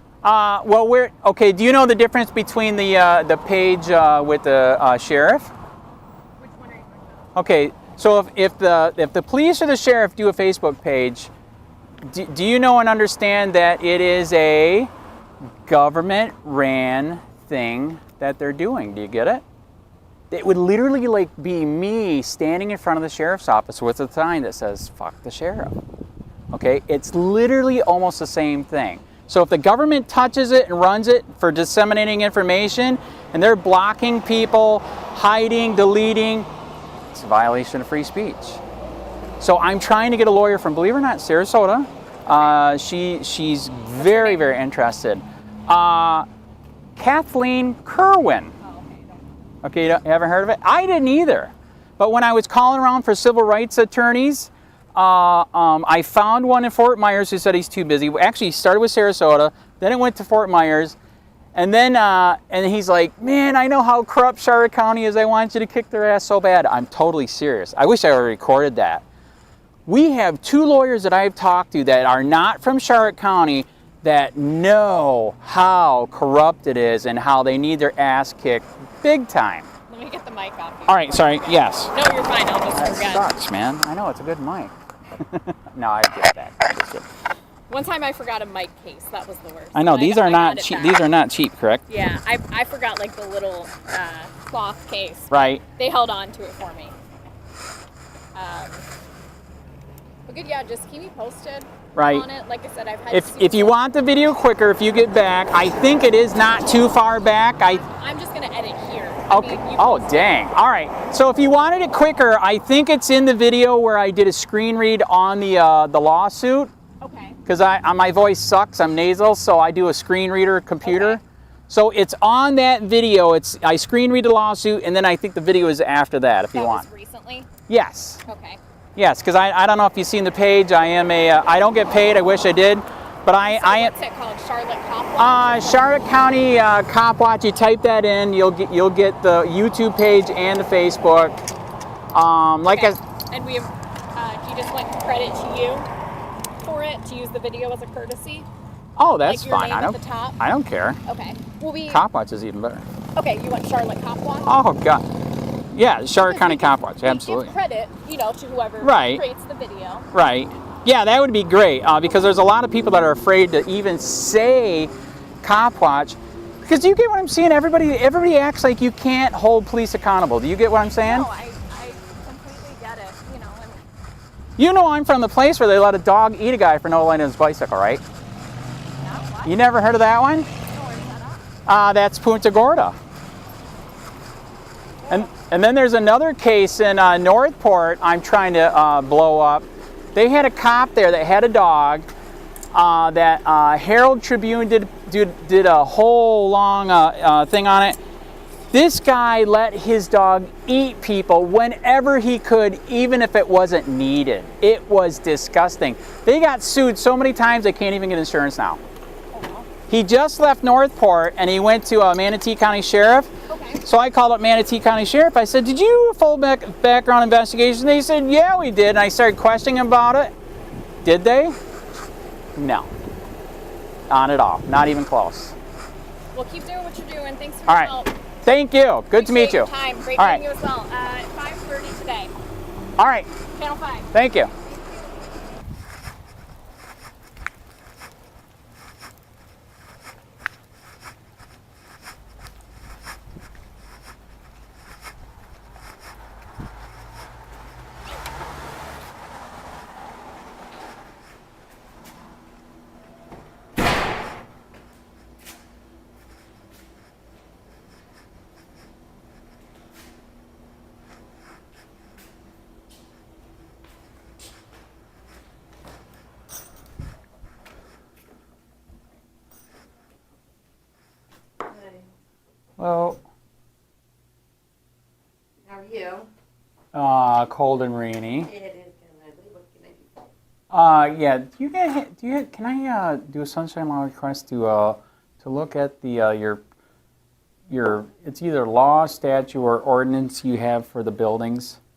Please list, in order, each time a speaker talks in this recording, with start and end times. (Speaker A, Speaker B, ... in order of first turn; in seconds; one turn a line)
Speaker A: 0.2-5.5
Speaker B: 6.4-7.3
Speaker A: 7.3-11.3
Speaker A: 12.0-14.9
Speaker A: 15.7-19.4
Speaker A: 20.3-25.8
Speaker A: 26.5-36.5
Speaker A: 37.1-38.6
Speaker A: 39.4-46.3
Speaker B: 44.0-44.6
Speaker A: 47.0-48.5
Speaker B: 48.6-49.2
Speaker A: 49.6-61.0
Speaker A: 61.5-69.0
Speaker A: 69.9-79.7
Speaker B: 79.9-83.3
Speaker A: 80.9-81.9
Speaker A: 82.7-87.0
Speaker B: 87.7-91.1
Speaker A: 89.8-91.8
Speaker B: 91.9-97.0
Speaker A: 95.3-95.6
Speaker B: 98.3-98.8
Speaker B: 100.3-103.8
Speaker A: 102.0-102.3
Speaker A: 103.1-107.8
Speaker B: 107.6-110.5
Speaker A: 109.3-116.7
Speaker B: 117.0-117.4
Speaker A: 117.5-126.9
Speaker B: 120.8-121.2
Speaker B: 126.5-127.5
Speaker A: 127.7-128.2
Speaker B: 128.3-128.6
Speaker A: 129.0-133.9
Speaker B: 133.4-135.9
Speaker A: 135.2-141.4
Speaker A: 142.1-143.0
Speaker B: 142.7-145.9
Speaker B: 146.6-148.5
Speaker A: 149.0-151.0
Speaker B: 149.2-150.4
Speaker B: 151.1-152.0
Speaker A: 151.9-152.8
Speaker B: 153.2-154.6
Speaker A: 154.5-155.0
Speaker A: 155.7-157.5
Speaker B: 156.2-160.1
Speaker A: 158.8-159.2
Speaker A: 160.1-171.3
Speaker B: 171.0-173.8
Speaker A: 174.6-178.0
Speaker B: 179.0-179.7
Speaker A: 179.4-180.5
Speaker B: 180.7-181.4
Speaker A: 181.7-183.0
Speaker B: 185.0-185.3
Speaker A: 185.1-192.1
Speaker A: 192.7-198.0
Speaker A: 198.7-208.8
Speaker B: 209.3-209.7
Speaker A: 209.9-213.3
Speaker B: 213.5-213.8
Speaker A: 213.8-220.3
Speaker A: 221.0-221.6
Speaker A: 222.6-222.9
Speaker A: 224.1-225.5
Speaker B: 226.3-228.1
Speaker A: 227.7-230.4
Speaker B: 229.1-232.3
Speaker A: 233.0-233.3
Speaker B: 233.5-234.1
Speaker A: 234.1-234.5
Speaker C: 271.6-272.0
Speaker A: 272.8-273.2
Speaker C: 275.6-276.3
Speaker A: 276.9-278.5
Speaker C: 278.4-280.3
Speaker A: 280.7-286.6
Speaker A: 287.7-291.8